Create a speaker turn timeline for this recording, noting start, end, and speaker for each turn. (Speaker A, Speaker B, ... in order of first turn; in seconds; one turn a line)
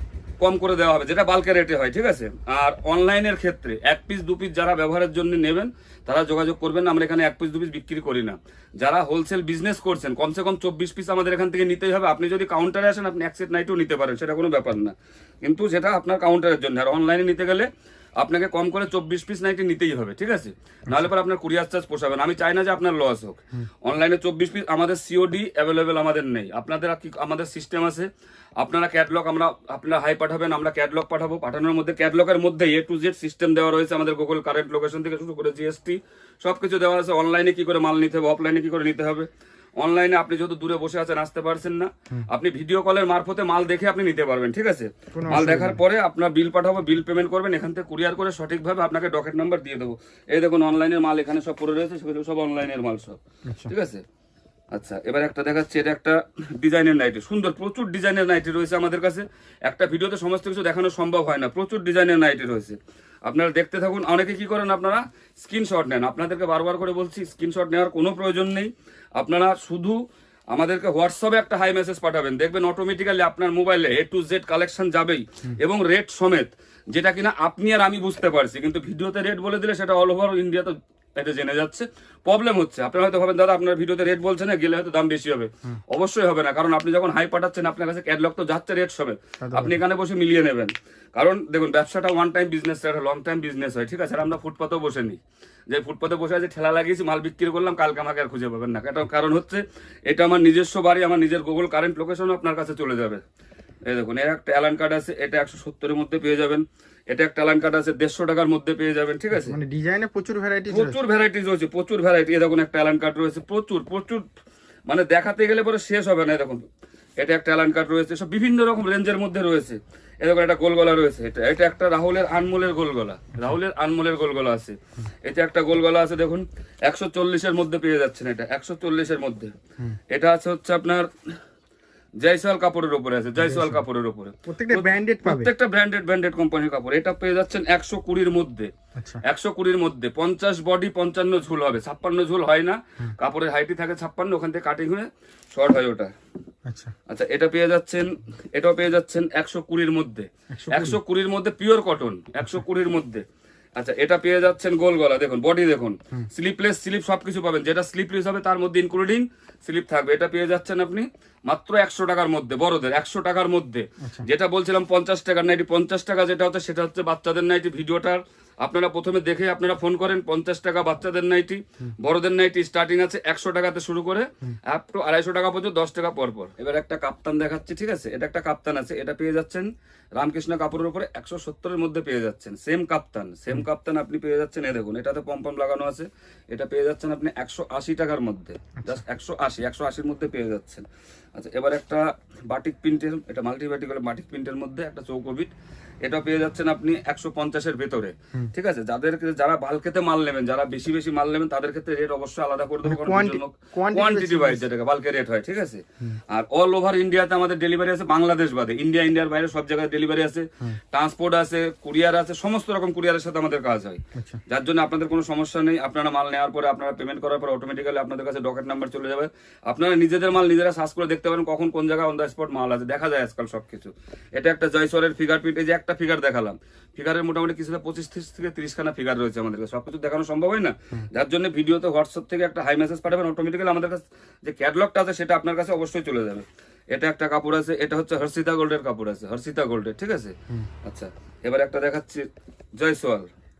Speaker A: 0.4-54.0
Speaker B: 45.1-45.8
Speaker A: 54.7-70.0
Speaker A: 70.5-103.2
Speaker B: 89.4-89.8
Speaker A: 103.8-109.6
Speaker B: 109.3-111.0
Speaker A: 110.7-114.2
Speaker A: 114.9-116.6
Speaker A: 117.2-129.5
Speaker A: 130.1-131.1
Speaker A: 132.2-138.7
Speaker B: 133.4-133.8
Speaker B: 134.4-135.5
Speaker A: 139.2-146.1
Speaker B: 146.7-146.9
Speaker A: 147.1-153.2
Speaker B: 150.5-151.0
Speaker A: 153.8-195.5
Speaker A: 196.0-242.3
Speaker B: 202.8-204.6
Speaker B: 214.1-214.4
Speaker A: 242.8-243.3